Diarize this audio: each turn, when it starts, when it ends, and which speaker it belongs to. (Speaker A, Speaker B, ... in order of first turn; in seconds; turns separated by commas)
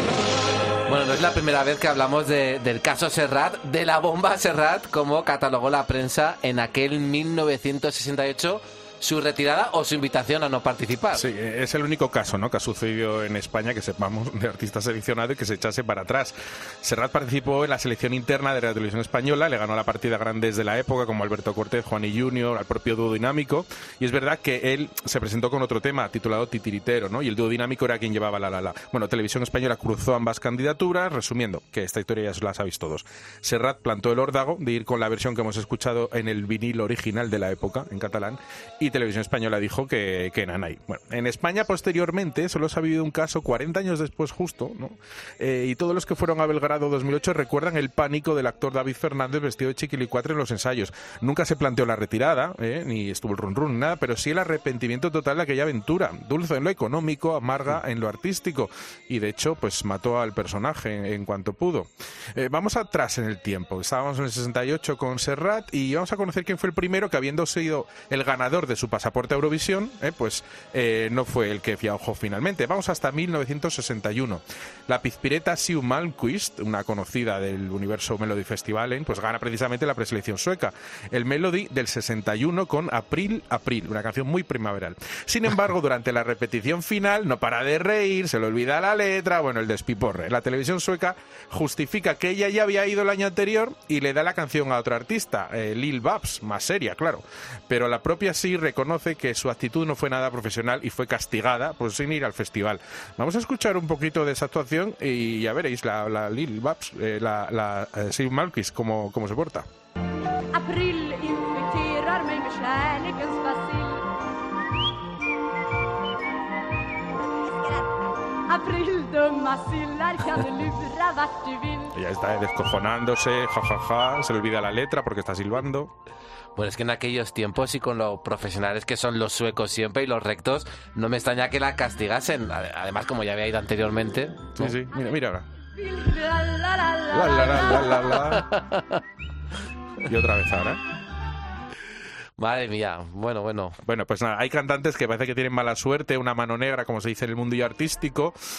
Speaker A: 0.9-11.2, Speaker B: 11.1-109.7, Speaker C: 110.6-114.0, Speaker C: 118.6-121.9, Speaker B: 121.9-125.9, Speaker A: 126.5-134.8, Speaker B: 134.5-135.5, Speaker C: 135.8-138.2, Speaker B: 137.1-138.5, Speaker A: 138.3-139.0, Speaker B: 140.0-140.8, Speaker A: 142.4-143.8, Speaker B: 143.8-148.3